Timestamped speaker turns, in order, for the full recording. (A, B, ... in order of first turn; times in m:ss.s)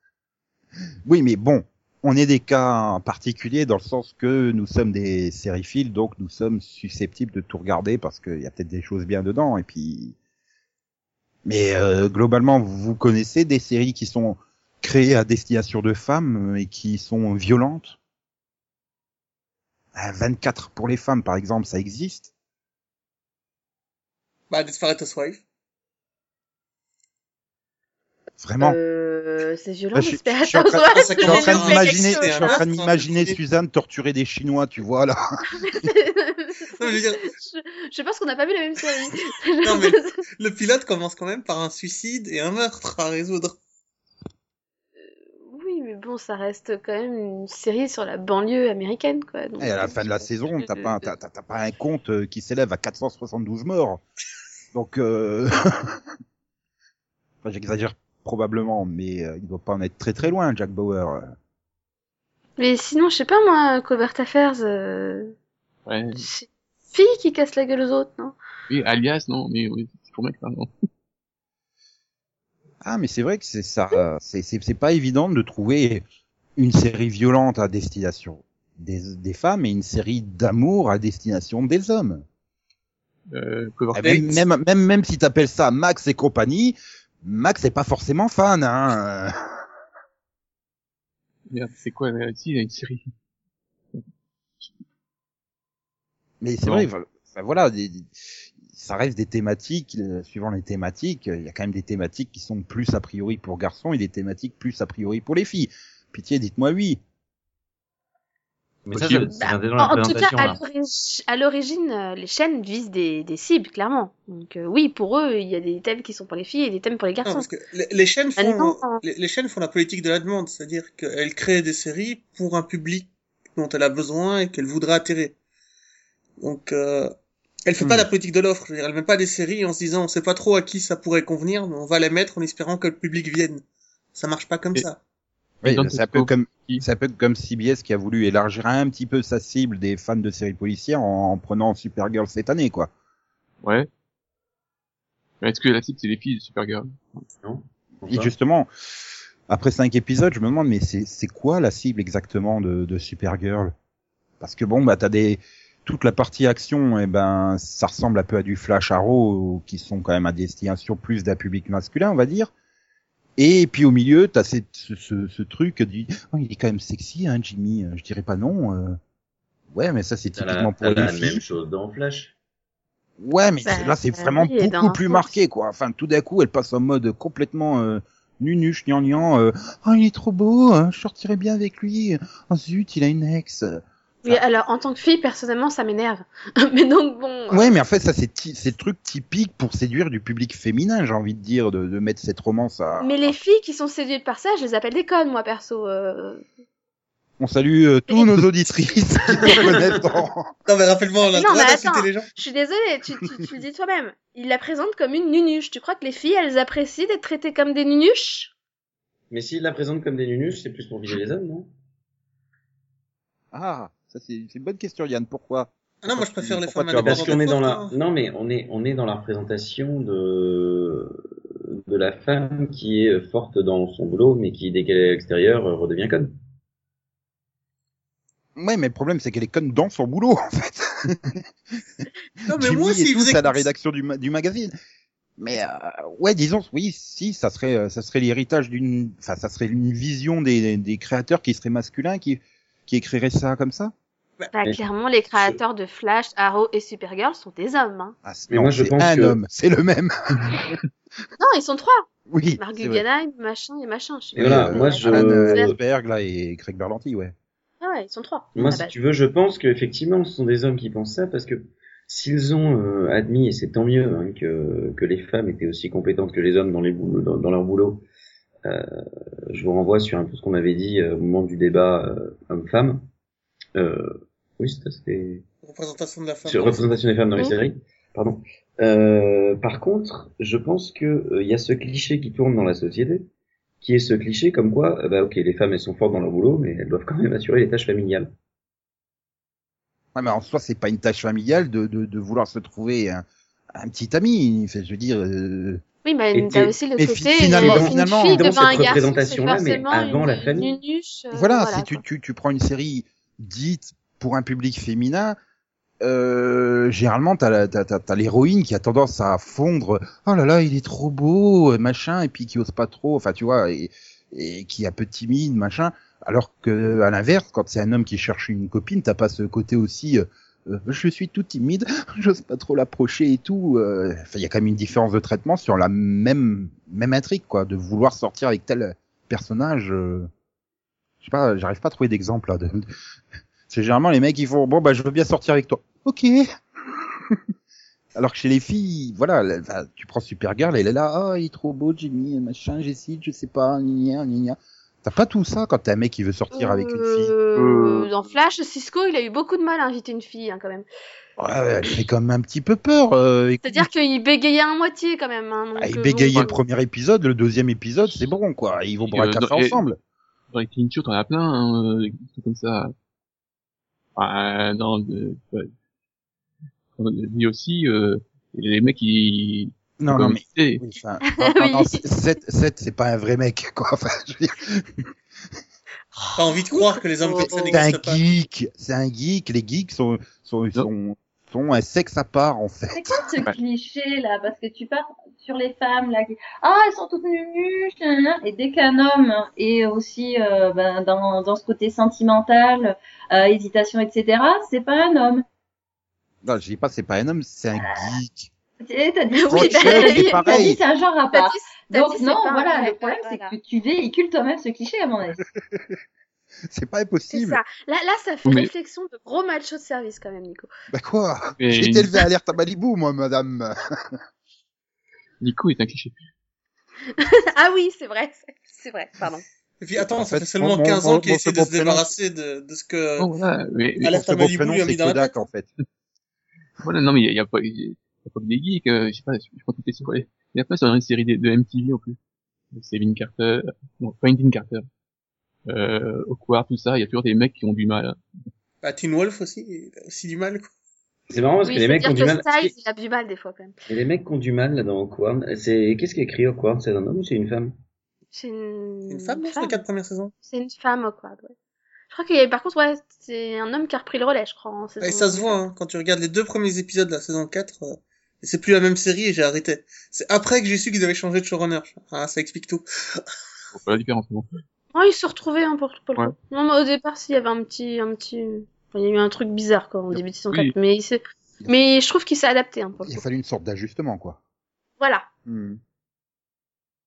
0:01.0-0:10.2 A
0:11.4-0:18.0 A
0:20.0-0:22.3 A
0:24.5-0:25.4 B
0:28.4-0:28.8 A
0:28.6-0:32.6 C
0:29.9-0:35.2 A
0:30.9-0:33.4 B
0:35.6-0:40.2 C
0:36.8-0:37.2 B
0:39.6-0:43.6 B
0:45.5-0:50.8 C
0:49.6-0:54.0 A
0:54.7-0:56.0 A
0:57.4-1:01.3 A
1:02.6-1:05.3 C
1:05.9-1:06.3 D
1:06.2-1:08.4 C
1:08.7-1:10.7 D
1:12.8-1:16.0 A
1:16.6-1:22.2 A
1:23.3-1:24.4 D
1:23.9-1:29.4 A
1:31.5-1:33.1 D
1:36.4-1:38.1 A
1:38.7-1:47.0 A
1:48.9-1:50.6 E
1:49.0-1:49.4 D
1:49.4-1:57.5 C
1:50.1-1:50.6 D
1:57.2-2:05.4 B
1:58.4-1:59.0 C
2:06.4-2:07.1 B
2:07.7-2:13.6 B
2:14.2-2:15.0 B
2:15.6-2:22.9 A
2:15.6-2:16.8 D
2:23.6-2:23.9 D
2:25.4-2:27.2 D
2:27.4-2:28.3 E
2:28.1-2:28.7 A
2:29.5-2:33.7 A
2:34.4-2:42.5 A
2:43.4-2:49.0 A
2:49.7-2:51.4 A
2:50.4-2:52.3 E
2:53.2-3:04.4 A
2:53.6-2:55.3 C
3:04.2-3:07.7 C
3:07.5-3:13.4 A
3:13.0-3:16.4 C
3:17.4-3:20.5 A
3:19.5-3:19.8 C
3:20.7-3:22.3 B
3:21.3-3:28.5 C
3:29.3-3:31.7 E
3:33.5-3:37.4 A
3:36.0-3:38.0 B
3:37.0-3:41.2 E
3:41.7-3:46.4 E
3:48.6-3:51.4 A
3:52.0-3:54.7 A
3:52.5-3:53.7 B
3:55.4-4:03.9 A
4:04.5-4:08.2 C
4:08.2-4:10.6 A
4:08.5-4:09.4 E
4:11.4-4:12.1 C
4:12.3-4:13.0 A
4:12.6-4:15.7 C
4:14.4-4:15.8 E
4:14.4-4:17.4 A
4:17.8-4:18.9 C
4:18.6-4:28.0 E
4:28.6-4:33.1 E
4:33.8-4:35.4 E
4:35.6-4:37.0 B
4:36.4-4:43.3 E
4:43.8-4:48.3 E
4:50.2-4:55.8 A
4:56.0-5:02.0 C
4:56.4-4:56.8 E
4:57.0-4:59.0 A
4:57.6-5:00.8 E
5:01.3-5:05.4 A
5:06.0-5:30.3 A
5:31.2-5:32.9 A
5:33.7-5:37.4 A
5:38.2-5:47.3 A
5:46.5-5:50.9 C
5:47.6-5:48.1 D
5:51.4-5:53.9 A
5:53.6-5:56.5 C
5:55.8-6:00.0 A
5:59.0-5:59.9 D
6:00.5-6:02.9 D
6:04.2-6:05.7 D
6:07.0-6:10.8 D
6:10.0-6:14.9 A
6:11.4-6:12.0 C
6:16.2-6:17.7 C
6:16.4-6:18.2 B
6:17.7-6:23.2 A
6:22.9-6:35.4 F
6:36.4-6:38.5 A
6:37.8-6:38.1 F
6:38.8-6:45.4 F
6:39.4-6:40.8 C
6:39.5-6:40.8 A
6:41.3-6:43.6 C
6:46.7-6:47.6 A
6:47.3-6:50.7 C
6:48.4-6:48.7 D
6:50.9-6:54.2 A
6:51.6-6:52.2 D
6:55.4-6:56.2 D
6:57.2-6:59.4 C
6:59.8-7:03.3 B
7:00.0-7:02.1 A
7:03.2-7:04.3 D
7:04.0-7:05.4 B
7:04.1-7:05.7 A
7:06.8-7:12.2 D
7:12.7-7:14.9 D
7:15.7-7:18.2 D
7:18.8-7:20.7 B
7:21.3-7:22.7 E
7:21.6-7:23.7 C
7:23.9-7:27.8 E
7:28.3-7:29.8 C
7:29.1-7:30.3 B
7:30.4-7:31.5 C
7:32.1-7:35.6 C
7:35.0-7:43.2 B
7:43.7-7:44.5 D
7:44.9-7:53.2 C
7:50.2-7:50.7 D
7:53.0-7:54.4 A
7:55.0-7:55.3 C
7:55.5-7:55.8 A